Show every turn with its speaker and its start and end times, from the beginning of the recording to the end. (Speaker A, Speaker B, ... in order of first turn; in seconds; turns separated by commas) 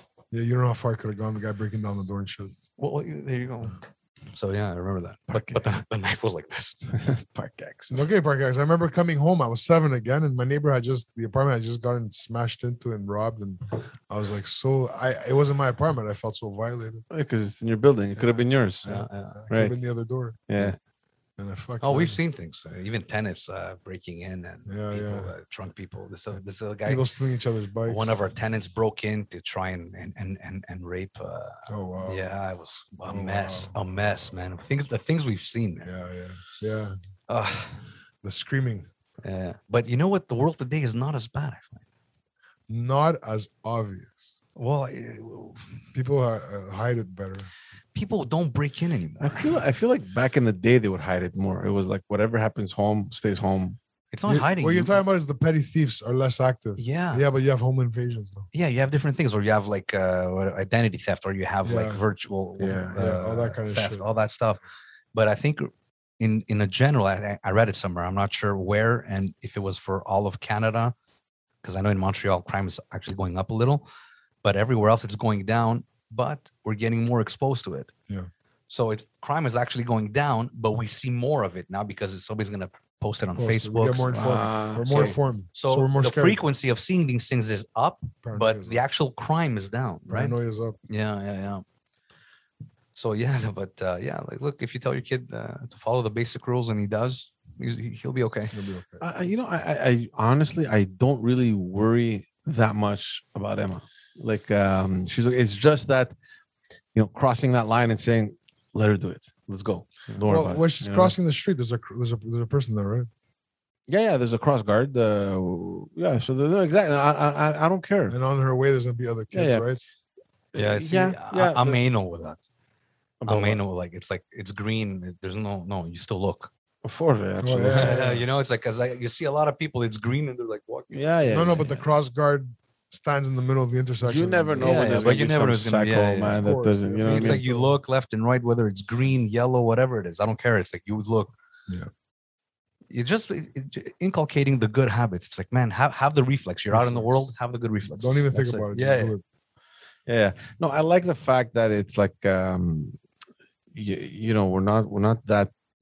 Speaker A: 0.3-2.6, Speaker B: 2.8-3.8, Speaker B: 4.3-7.0, Speaker C: 5.4-5.6, Speaker C: 6.9-8.0, Speaker A: 7.9-17.1, Speaker C: 17.1-18.9, Speaker A: 18.2-20.5, Speaker B: 18.9-19.4, Speaker C: 19.5-19.8, Speaker C: 20.5-20.8, Speaker A: 21.4-22.2, Speaker B: 21.8-27.1, Speaker A: 24.7-25.3, Speaker A: 26.9-28.1, Speaker B: 27.9-35.9, Speaker A: 31.7-32.2, Speaker A: 33.0-33.7, Speaker A: 35.8-37.0, Speaker B: 37.3-37.9, Speaker A: 38.2-38.9, Speaker B: 39.2-41.8, Speaker A: 42.7-44.2, Speaker B: 44.6-45.8, Speaker A: 45.9-47.5, Speaker B: 48.0-49.6, Speaker C: 49.2-53.8, Speaker B: 54.1-55.0, Speaker A: 54.3-58.5, Speaker B: 56.8-57.3, Speaker B: 58.5-64.6, Speaker A: 61.6-62.0, Speaker C: 62.6-63.0, Speaker A: 62.9-64.1, Speaker B: 65.1-71.0, Speaker B: 71.6-73.8, Speaker B: 74.4-77.9, Speaker B: 78.7-90.4, Speaker A: 83.4-86.4, Speaker C: 84.2-85.2, Speaker A: 88.2-88.8, Speaker A: 90.1-90.8, Speaker B: 90.9-91.6, Speaker B: 93.0-98.5, Speaker A: 98.5-99.0, Speaker C: 99.0-106.2, Speaker C: 107.0-111.2, Speaker A: 110.3-113.1, Speaker C: 113.9-118.2, Speaker A: 118.1-119.8, Speaker C: 119.3-119.7, Speaker C: 120.5-121.8, Speaker B: 120.5-122.4, Speaker C: 123.2-123.6, Speaker B: 123.3-126.5, Speaker C: 126.8-128.0, Speaker A: 127.4-128.3, Speaker B: 127.7-131.7, Speaker C: 130.9-131.8, Speaker A: 131.3-134.9, Speaker C: 134.0-137.4, Speaker B: 134.6-136.4, Speaker A: 136.3-137.7, Speaker B: 137.0-141.3, Speaker B: 142.9-149.1, Speaker A: 146.7-147.3, Speaker A: 148.0-149.2, Speaker C: 150.1-153.0, Speaker C: 153.7-155.5